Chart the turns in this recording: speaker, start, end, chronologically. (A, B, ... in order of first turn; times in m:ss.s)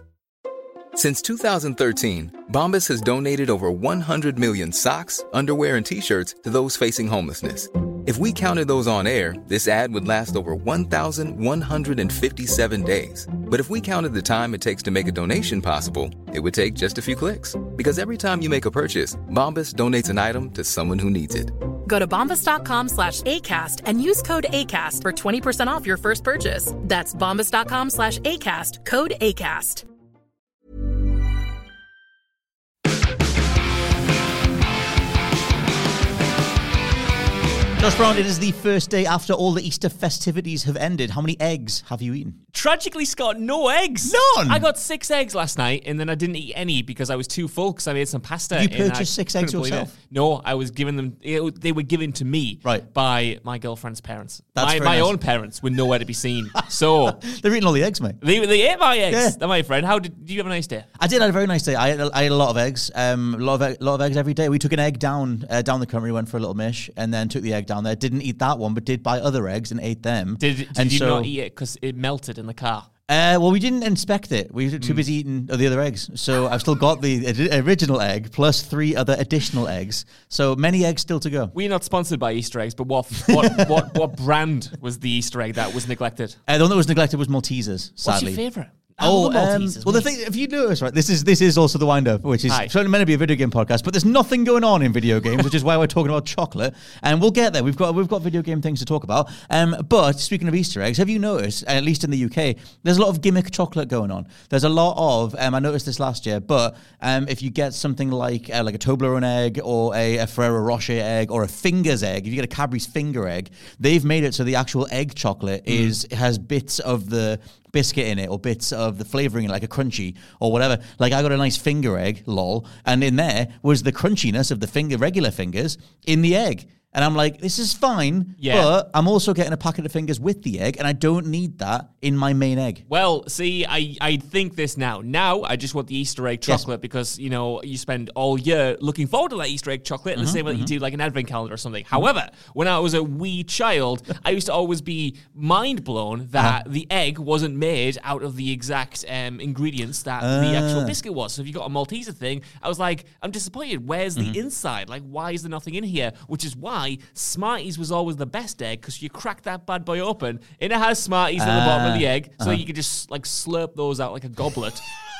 0:00.9-0:21.5 A
0:21.8-0:29.8 B
0:37.8-0:42.4 C
0:42.5-0:57.2 D
0:44.0-0:44.6 C
0:48.5-0:49.9 C
0:54.6-0:55.1 C
0:57.1-0:58.2 C
0:58.2-1:00.9 D
0:59.1-0:59.4 C
1:01.0-1:11.3 C
1:10.4-1:12.9 D
1:13.1-1:21.5 C
1:21.5-1:26.4 D
1:23.2-1:23.7 C
1:26.5-1:28.4 C
1:28.0-1:30.1 D
1:29.0-2:12.8 C
1:55.7-1:55.9 D
2:08.4-2:08.7 D
2:12.9-2:44.8 D
2:20.1-2:20.7 C
2:30.2-2:31.0 C
2:41.4-2:42.6 C